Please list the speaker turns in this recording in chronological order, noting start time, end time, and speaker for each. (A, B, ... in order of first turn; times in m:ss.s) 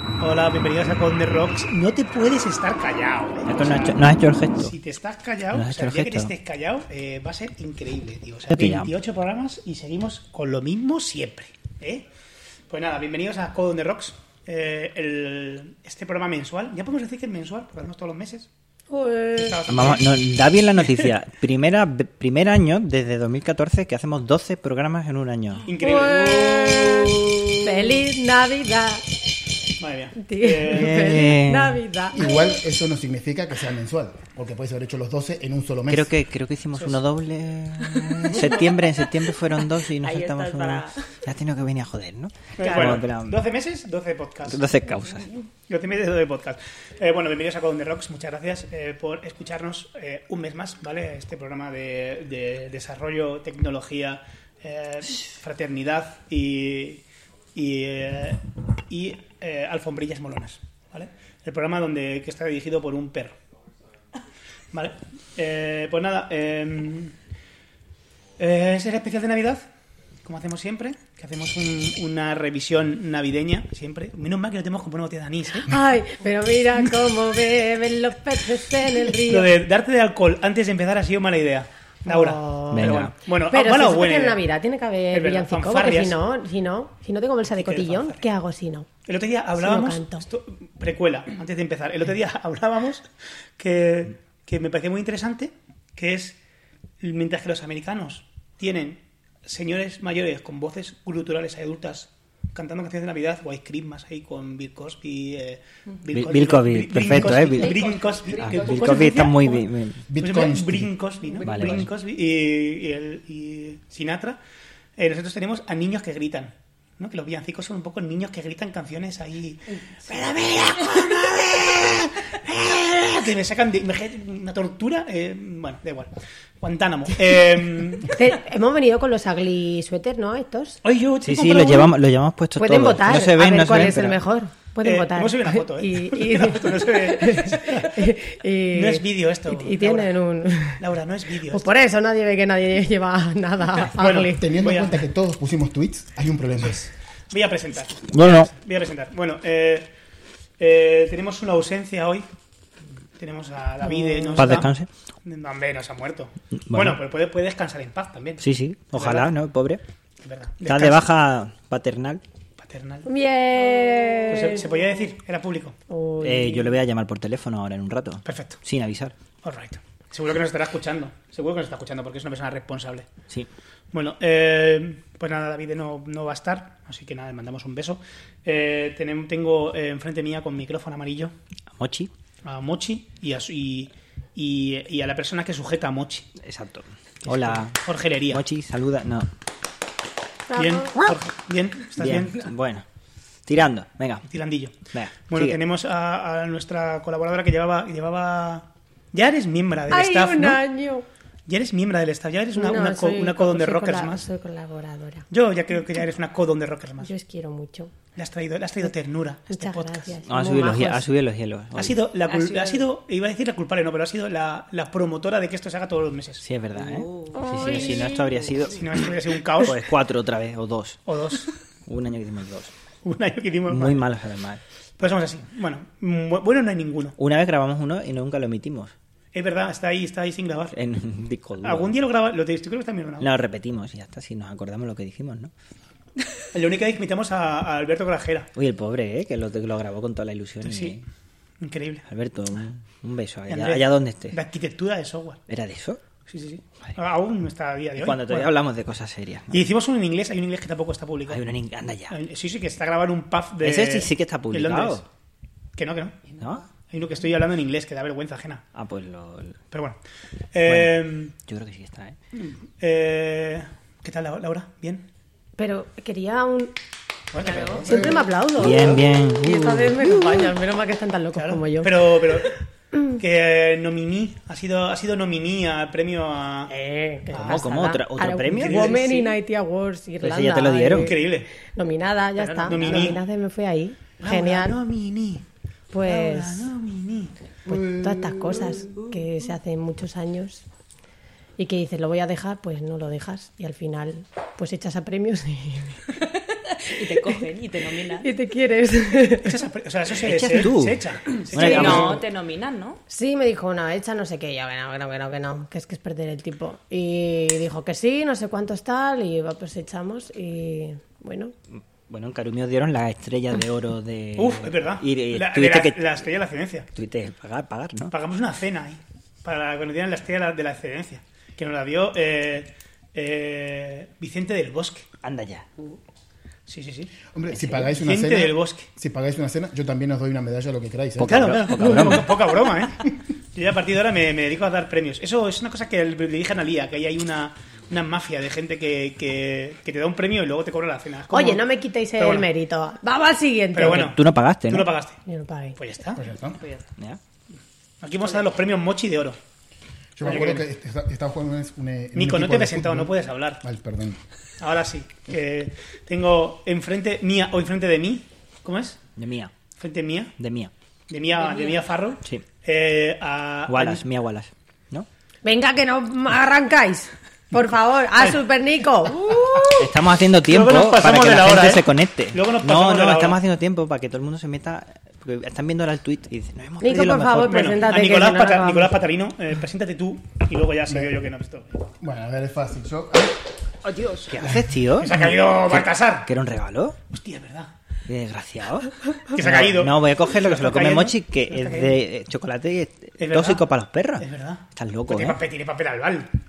0:00.2-0:12.0 A
0:03.4-0:04.7 B
0:05.5-0:06.3 B
0:08.5-0:08.9 B
0:12.7-0:18.5 A
0:18.9-0:19.6 C
0:19.4-0:20.2 A
0:19.7-0:25.7 B
0:25.6-0:27.3 A
0:25.8-0:29.0 C
0:29.8-0:31.3 A
0:30.2-0:32.6 C
0:30.7-0:31.8 B
0:32.1-0:36.1 D
0:35.9-0:43.4 B
0:37.9-0:38.8 A
0:39.9-0:41.2 E
0:42.6-0:44.6 A
0:44.5-0:45.3 B
0:45.7-0:57.0 A
0:57.5-1:03.4 A
1:04.7-1:07.1 A
1:08.4-1:09.7 A
1:10.2-1:15.7 A
1:15.6-1:19.5 C
1:19.1-1:24.4 A
1:22.0-1:28.9 C
1:22.7-1:23.1 B
1:25.1-1:26.2 A
1:27.5-1:28.2 A
1:29.0-1:33.0 A
1:29.6-1:30.2 C
1:33.6-1:36.4 A
1:37.0-1:49.7 A
1:46.1-1:47.9 B
1:47.6-1:49.0 E
1:48.4-1:50.0 B
1:50.1-1:50.9 D
1:50.2-1:54.4 A
1:51.4-1:51.9 B
1:55.0-2:08.2 A
2:08.1-2:10.8 C
2:10.8-2:12.0 A
2:11.2-2:14.2 B
2:12.6-2:20.8 C
2:14.8-2:18.0 A
2:18.7-2:20.1 A
2:20.8-2:21.7 A
2:21.5-2:24.4 C
2:23.8-2:25.0 A
2:24.1-2:26.9 D
2:26.6-2:29.9 A
2:28.1-2:28.5 B
2:30.6-2:32.2 A
2:33.2-2:34.7 A
2:33.9-2:34.4 C
2:34.3-2:34.9 B
2:35.2-2:39.3 A
2:36.6-2:37.0 B
2:38.4-2:39.8 B
2:40.2-2:41.1 A
2:40.7-2:42.2 B
2:42.6-2:43.0 A
2:43.0-2:44.8 C
2:44.3-2:45.8 A
2:45.9-2:46.8 C
2:46.2-2:49.1 B
2:48.2-2:48.6 A
2:49.4-2:53.0 A
2:53.9-3:01.3 A
3:01.8-3:02.1 B
3:02.4-3:06.3 A
3:06.4-3:07.8 B
3:07.2-3:08.4 A
3:08.3-3:09.3 B
3:10.5-3:11.0 C
3:10.6-3:12.5 A
3:12.0-3:12.8 B
3:13.4-3:14.2 B
3:14.3-3:14.7 A
3:14.9-3:15.6 B
3:15.3-3:20.6 A
3:19.9-3:21.0 C
3:21.5-3:24.2 A
3:22.5-3:25.2 C
3:25.3-3:27.1 A
3:27.0-3:27.9 C
3:28.2-3:30.2 A
3:29.5-3:31.0 C
3:30.3-3:32.0 B
3:31.7-3:36.4 A
3:32.2-3:32.8 E
3:36.4-3:38.9 B
3:36.7-3:38.5 E
3:37.3-3:38.3 C
3:38.7-3:39.8 A
3:39.6-3:41.0 B
3:41.0-3:41.5 A
3:41.9-3:42.7 B
3:43.0-3:44.0 A
3:43.7-3:44.6 B
3:45.0-3:47.1 A
3:47.2-3:48.9 B
3:49.3-3:50.7 A
3:50.7-3:51.9 B
3:51.6-3:53.3 A
3:53.2-3:55.5 B
3:56.5-3:58.5 A
3:58.6-4:01.0 B
4:00.6-4:01.0 A
4:01.6-4:02.0 A
4:02.1-4:04.4 B
4:03.5-4:05.4 A
4:05.5-4:06.0 B
4:06.3-4:08.6 A
4:08.0-4:09.6 B
4:09.5-4:11.4 A
4:11.3-4:12.1 B
4:12.1-4:15.0 A
4:13.6-4:15.0 B
4:15.8-4:16.2 A
4:16.9-4:18.6 A
4:18.7-4:19.6 B
4:19.7-4:20.0 A
4:20.5-4:21.3 A
4:20.6-4:20.9 B
4:21.5-4:22.2 B
4:22.3-4:25.0 A
4:25.6-4:26.7 C
4:27.3-4:28.2 A
4:27.4-4:27.8 E
4:27.5-4:31.9 C
4:28.5-4:30.4 B
4:31.3-4:32.6 A
4:32.9-4:33.2 C
4:33.2-4:36.7 A
4:36.7-4:44.7 C
4:37.3-4:39.0 B
4:38.6-4:39.3 A
4:40.2-4:41.1 B
4:40.9-4:41.5 A
4:42.4-4:43.2 E
4:42.6-4:43.2 A
4:44.2-4:45.4 A
4:45.9-4:46.7 C
4:46.0-4:47.3 A
4:47.7-4:48.8 D
4:47.7-4:50.6 C
4:51.6-4:56.0 C
4:56.5-4:58.3 E
4:58.2-4:59.5 C
4:59.4-5:02.2 A
5:00.2-5:02.2 B
5:01.6-5:03.0 E
5:03.1-5:11.5 C
5:11.7-5:16.2 B
5:14.4-5:16.9 A
5:16.9-5:18.1 B
5:18.1-5:25.1 A
5:25.2-5:25.6 B
5:26.7-5:27.1 A
5:27.3-5:31.6 D
5:27.9-5:28.9 A
5:31.2-5:32.4 B
5:31.2-5:41.6 A
5:41.3-5:44.0 C
5:42.2-5:42.5 A
5:43.7-5:45.2 A
5:43.8-5:44.9 B
5:45.2-5:45.8 C
5:45.8-5:46.2 A
5:46.1-5:46.6 D
5:46.6-5:46.9 E
5:48.0-5:49.4 A
5:50.2-5:54.2 D
5:50.2-5:50.6 A
5:52.1-5:53.6 A
5:54.6-5:59.0 A
5:59.2-5:59.5 B
5:59.8-6:00.3 A
6:00.4-6:00.7 B
6:01.1-6:04.0 A
6:01.4-6:01.8 E
6:03.7-6:05.1 B
6:05.4-6:09.6 C
6:09.3-6:09.7 A
6:09.8-6:17.6 B
6:10.4-6:13.4 A
6:16.8-6:18.9 C
6:17.4-6:21.7 A
6:22.0-6:23.4 D
6:23.8-6:24.4 E
6:24.3-6:27.0 B
6:24.4-6:24.7 D
6:25.0-6:26.3 A
6:27.1-6:27.7 A
6:28.1-6:35.4 B
6:29.3-6:32.0 A
6:33.2-6:33.6 A
6:34.2-6:36.3 A